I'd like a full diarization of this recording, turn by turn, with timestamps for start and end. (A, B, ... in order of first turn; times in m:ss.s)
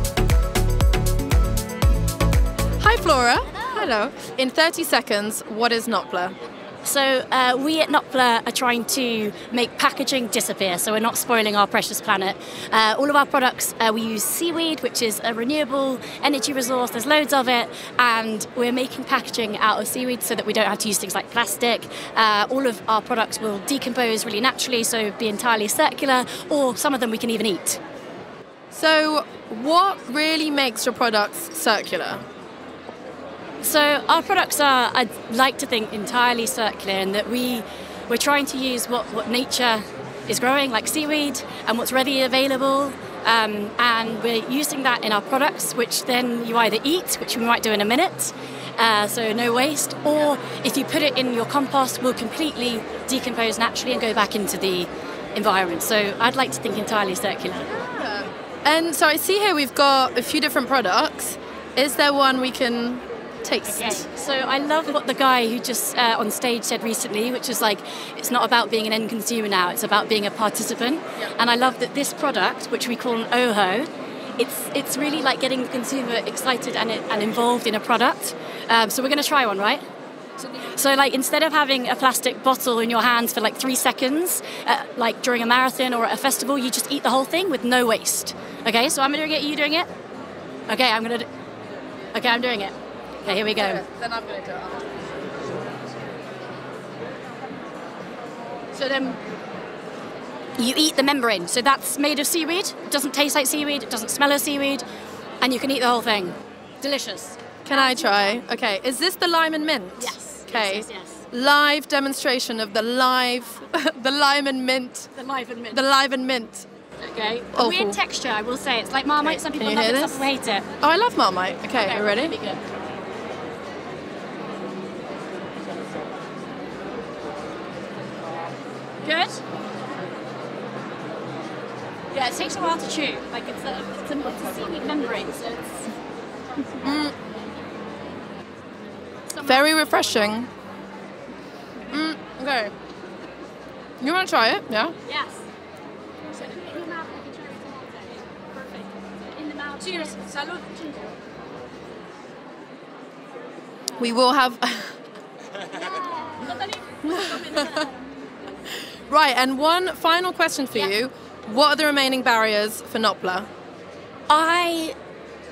0:02.8-0:06.4 A
0:03.5-0:03.9 B
0:06.8-0:27.8 B
0:28.7-0:32.2 A
0:33.6-0:57.7 B
0:57.6-1:04.0 A
1:03.7-1:19.8 B
1:20.6-1:29.9 B
1:30.7-1:31.3 B
1:32.1-1:33.8 B
1:33.3-1:34.9 A
1:38.7-1:39.2 B
1:40.6-1:44.8 B
1:45.4-1:48.4 B
1:47.6-1:55.1 A
1:50.0-1:51.2 B
1:55.1-1:55.8 B
1:55.7-1:56.7 A
1:57.0-2:00.7 B
1:57.6-1:58.0 A
1:59.2-2:00.3 A
2:00.8-2:02.4 A
2:01.7-2:02.6 B
2:09.0-2:09.4 B
2:12.1-2:15.9 B
2:16.8-2:17.1 A
2:19.3-2:19.7 B
2:19.4-2:20.5 A
2:21.9-2:22.7 A
2:24.0-2:25.0 A
2:25.1-2:25.4 B
2:26.3-2:31.0 B
2:34.0-2:35.0 A
2:35.9-2:37.9 B
2:37.0-2:37.9 A
2:39.1-2:43.5 A
2:44.3-2:45.0 B